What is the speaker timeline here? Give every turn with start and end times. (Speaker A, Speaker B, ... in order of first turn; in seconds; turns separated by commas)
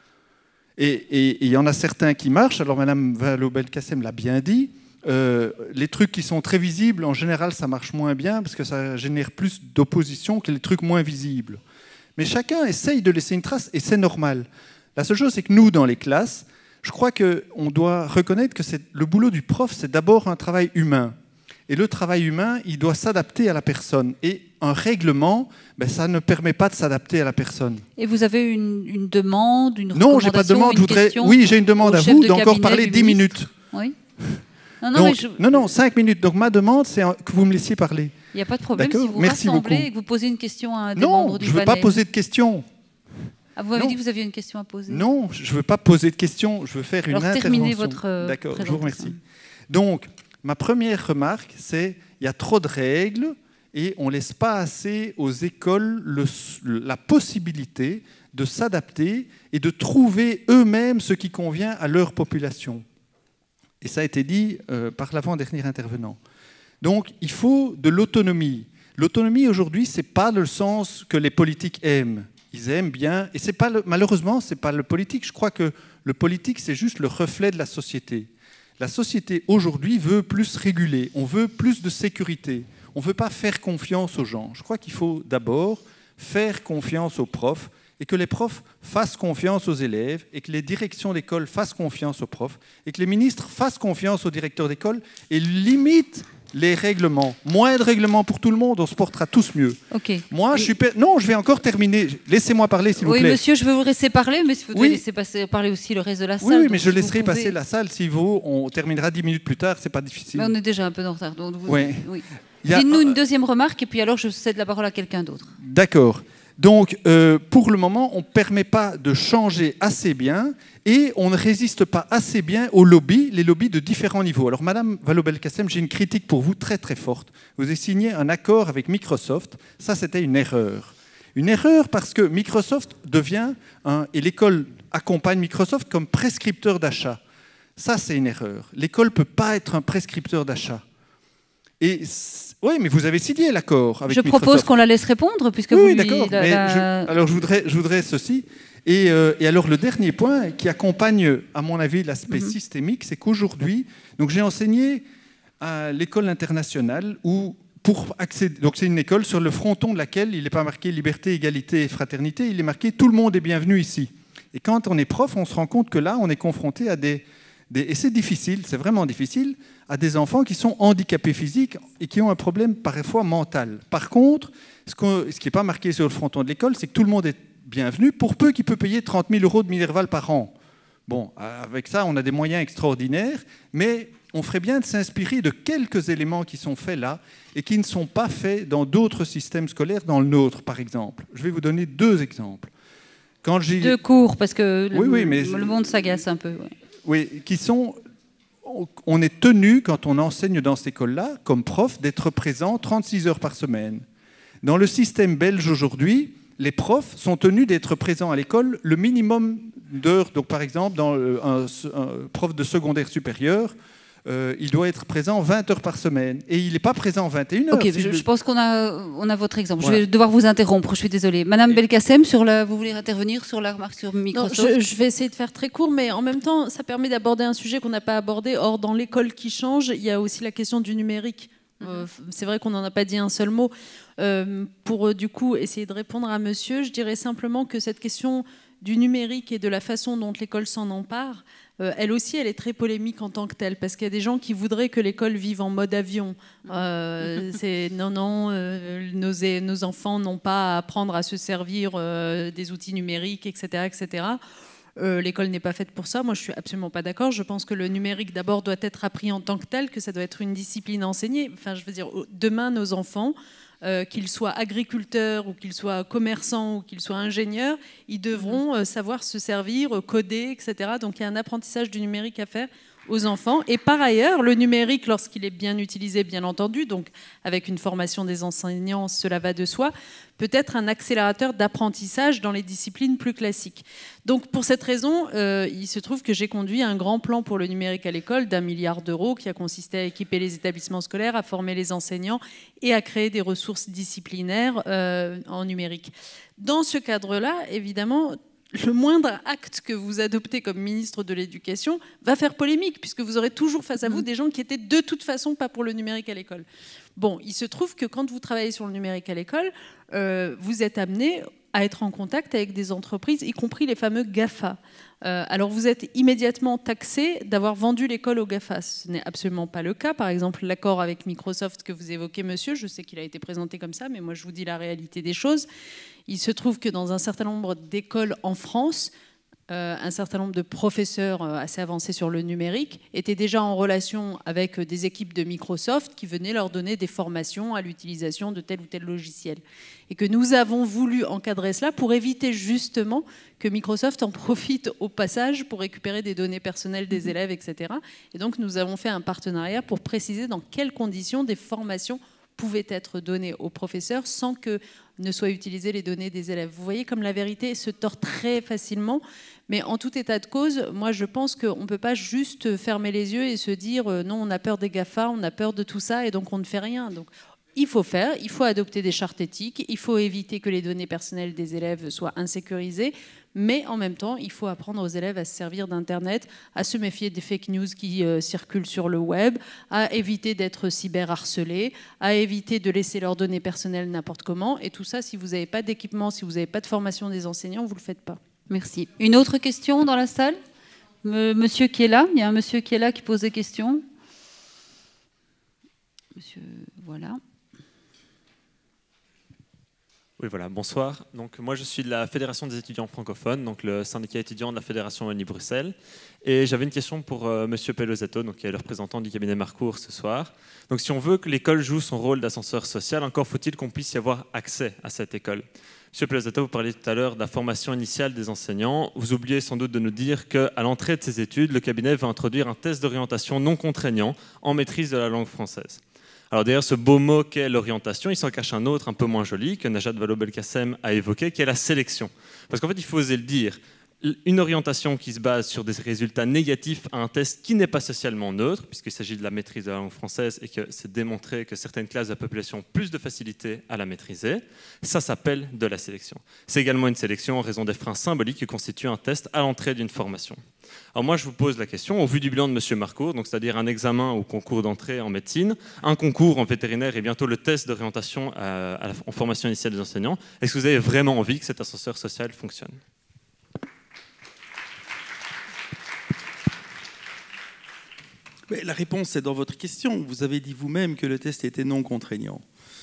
Speaker A: 0.8-11.6, Speaker A: 12.2-21.2, Speaker A: 21.7-27.8, Speaker B: 28.0-34.0, Speaker A: 29.9-33.5, Speaker B: 34.8-35.7, Speaker A: 34.9-38.1, Speaker B: 38.3-42.0, Speaker A: 38.8-39.9, Speaker A: 41.0-42.7, Speaker B: 43.6-45.1, Speaker A: 44.9-49.2, Speaker B: 47.1-49.2, Speaker A: 49.7-62.9, Speaker A: 63.8-66.2, Speaker A: 66.8-103.4, Speaker B: 99.9-100.7, Speaker B: 103.0-107.6, Speaker A: 104.7-105.0, Speaker A: 106.4-110.5, Speaker B: 110.3-115.5, Speaker A: 111.7-112.1, Speaker A: 112.6-113.2, Speaker A: 115.6-137.2, Speaker A: 137.8-140.8, Speaker A: 141.8-144.7, Speaker B: 144.1-147.1, Speaker A: 145.7-155.1, Speaker A: 155.6-180.5, Speaker A: 181.1-192.7, Speaker A: 193.4-194.0, Speaker B: 193.8-196.7, Speaker A: 194.9-195.7, Speaker A: 197.1-198.0, Speaker A: 198.6-204.1, Speaker A: 204.6-218.3, Speaker B: 217.7-224.8, Speaker C: 224.3-254.4, Speaker C: 255.0-306.7, Speaker C: 307.2-325.7, Speaker C: 326.3-329.1, Speaker C: 329.7-388.4, Speaker B: 388.7-390.6, Speaker B: 391.2-394.1, Speaker B: 396.4-397.4, Speaker D: 400.4-463.0, Speaker E: 468.7-472.6